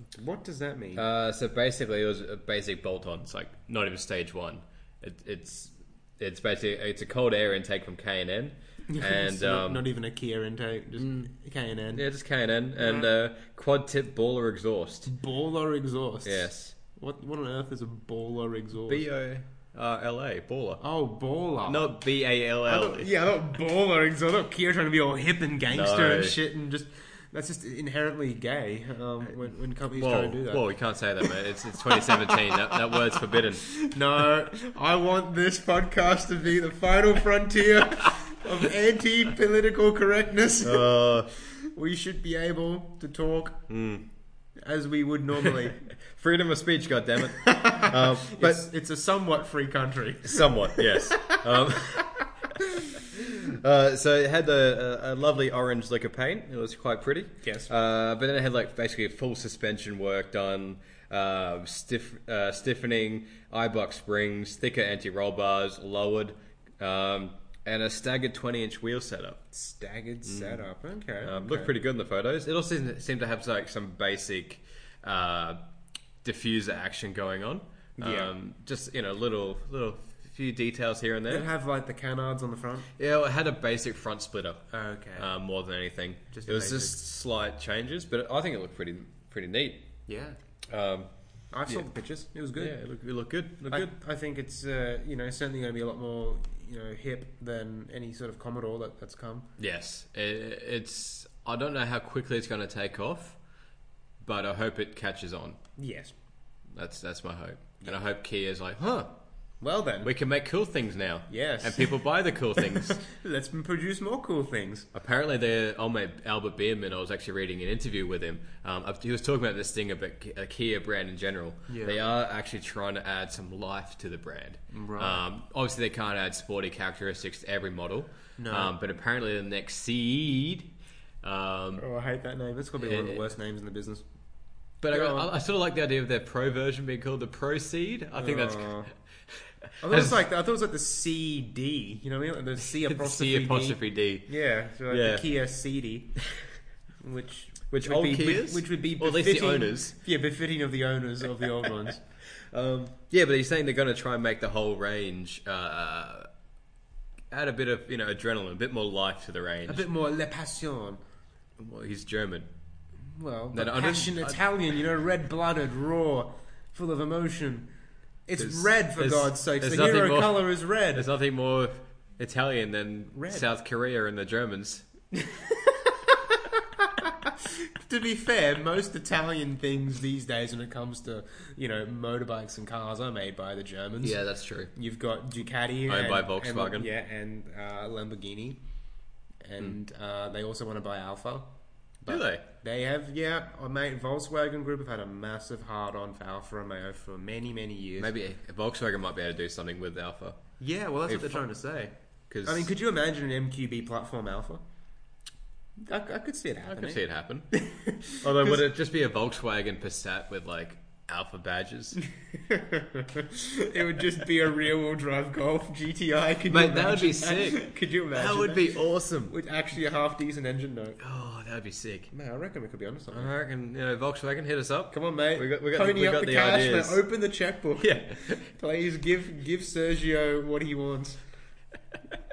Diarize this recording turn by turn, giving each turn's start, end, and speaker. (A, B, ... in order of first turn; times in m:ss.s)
0:00.2-0:01.1 A
0:01.0-0:09.8 B
0:08.9-0:12.0 A
0:11.0-0:11.3 B
0:11.9-0:15.1 B
0:12.8-0:13.1 A
0:15.1-0:19.1 A
0:16.2-0:16.8 B
0:18.9-0:20.8 B
0:20.8-0:22.0 A
0:21.6-0:23.1 B
0:22.6-0:30.6 A
0:25.7-0:26.4 B
0:30.0-0:33.7 B
0:31.2-0:43.7 A
0:40.6-0:41.3 B
0:43.7-0:44.1 B
0:44.6-0:45.9 A
0:45.4-0:48.6 B
0:47.3-0:53.4 A
0:50.2-0:52.2 B
0:53.0-1:09.4 B
0:57.4-0:57.7 A
1:09.5-1:11.7 A
1:10.3-1:10.6 B
1:11.2-1:15.6 B
1:16.2-1:21.5 B
1:18.0-1:18.4 A
1:21.3-1:22.9 A
1:23.0-1:29.9 B
1:24.7-1:25.3 A
1:26.3-1:27.0 A
1:30.1-1:30.4 A
1:30.7-1:31.1 B
1:31.5-1:32.8 A
1:32.6-1:33.9 B
1:33.7-1:39.5 A
1:39.6-1:43.4 B
1:44.2-1:45.6 B
1:45.8-1:46.1 A
1:46.8-1:49.2 B
1:49.6-1:50.1 A
1:50.0-1:53.0 B
1:51.3-1:54.9 A
1:54.9-2:11.8 B
2:01.7-2:02.0 A
2:04.7-2:05.2 A
2:08.4-2:08.7 A
2:11.8-2:14.0 A
2:12.8-2:13.2 B
2:14.8-2:20.2 B
2:14.9-2:15.3 A
2:18.2-2:18.9 A
2:19.8-2:26.3 A
2:22.7-2:24.3 B
2:24.9-2:25.2 B
2:27.0-2:32.0 A
2:27.7-2:30.0 B
2:32.3-2:36.3 B
2:37.3-2:39.8 B
2:39.7-2:41.0 A
2:41.6-2:42.5 B
2:43.1-2:47.7 A
2:43.5-2:44.4 B
2:48.3-2:51.1 A
2:48.4-2:54.9 B
2:53.1-2:53.5 A
2:55.1-3:04.2 A
3:04.0-3:04.7 B
3:04.7-3:08.6 A
3:05.9-3:06.9 B
3:09.4-3:18.1 A
3:12.1-3:12.4 B
3:18.0-3:20.4 B
3:20.6-3:21.9 A
3:21.1-3:21.4 B
3:22.3-3:22.7 B
3:22.4-3:24.6 A
3:25.9-3:28.6 A
3:26.7-3:27.5 B
3:28.2-3:32.0 B
3:32.0-3:41.0 A
3:36.5-3:39.4 B
3:41.0-3:42.1 B
3:42.1-3:43.3 A
3:43.1-3:47.0 B
3:44.9-3:51.2 A
3:47.8-3:48.4 B